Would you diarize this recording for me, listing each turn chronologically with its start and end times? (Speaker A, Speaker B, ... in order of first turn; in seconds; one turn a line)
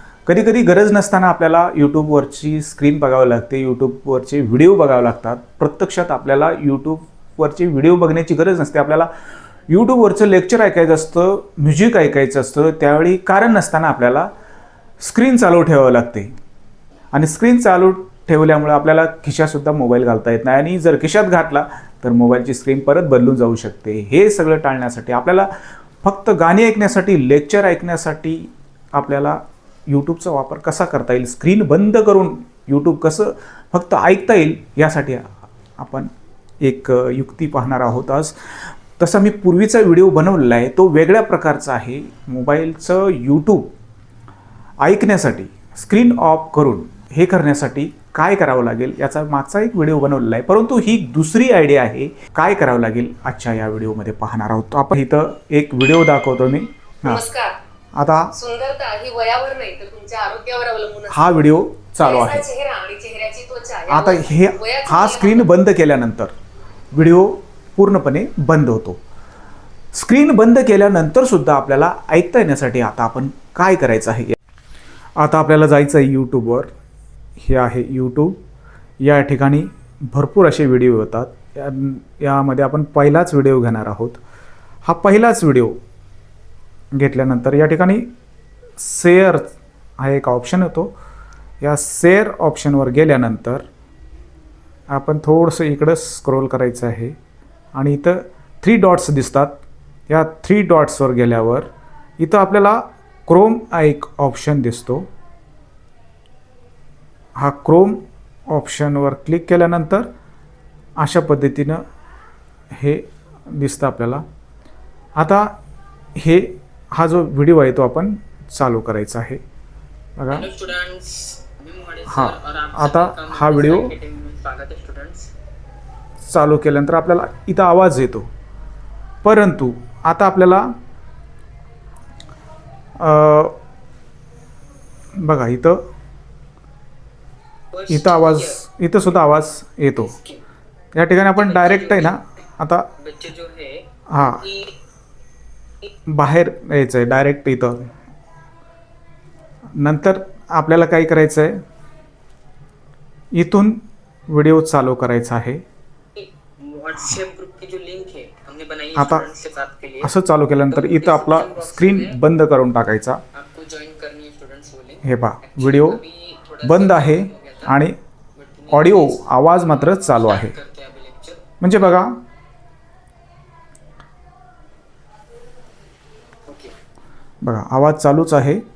Speaker A: 0.2-9.1
Speaker A: 9.7-14.3
Speaker A: 15.0-16.3
Speaker A: 17.1-25.5
Speaker A: 26.0-36.1
Speaker A: 36.6-38.4
Speaker A: 39.0-43.7
Speaker A: 44.8-57.3
Speaker B: 57.0-57.5
Speaker A: 58.0-58.3
Speaker B: 58.3-61.4
Speaker A: 61.1-62.5
Speaker B: 62.0-65.5
Speaker A: 63.9-66.3
Speaker A: 66.9-69.0
Speaker A: 69.9-74.3
Speaker A: 75.2-76.7
Speaker A: 77.4-78.3
Speaker A: 79.0-84.2
Speaker A: 84.8-85.8
Speaker A: 86.9-88.0
Speaker A: 88.8-90.9
Speaker A: 91.6-93.7
Speaker A: 94.9-97.2
Speaker A: 97.7-99.6
Speaker A: 100.1-101.7
Speaker A: 102.2-105.1
Speaker A: 107.4-110.1
Speaker A: 111.0-111.8
Speaker A: 112.7-114.2
Speaker A: 115.2-115.5
Speaker A: 116.2-119.4
Speaker A: 120.2-120.5
Speaker C: 120.3-125.3
Speaker A: 122.0-123.9
Speaker A: 126.3-128.3
Speaker A: 129.2-130.7
Speaker A: 133.0-133.6
Speaker A: 135.2-135.8
Speaker C: 137.7-138.6
Speaker A: 137.9-140.1
Speaker C: 140.1-140.4
Speaker A: 140.9-142.9
Speaker C: 141.3-142.2
Speaker C: 143.0-144.7
Speaker A: 144.1-144.5
Speaker A: 146.1-147.9
Speaker A: 149.8-151.6
Speaker A: 153.3-155.6
Speaker C: 156.2-160.1
Speaker A: 158.9-159.2
Speaker A: 160.0-163.2
Speaker C: 160.7-162.2
Speaker C: 163.3-167.7
Speaker A: 165.0-166.0
Speaker A: 166.6-167.9
Speaker C: 168.3-171.5
Speaker A: 168.7-170.5
Speaker A: 171.6-172.1
Speaker C: 176.5-176.7
Speaker A: 177.4-178.6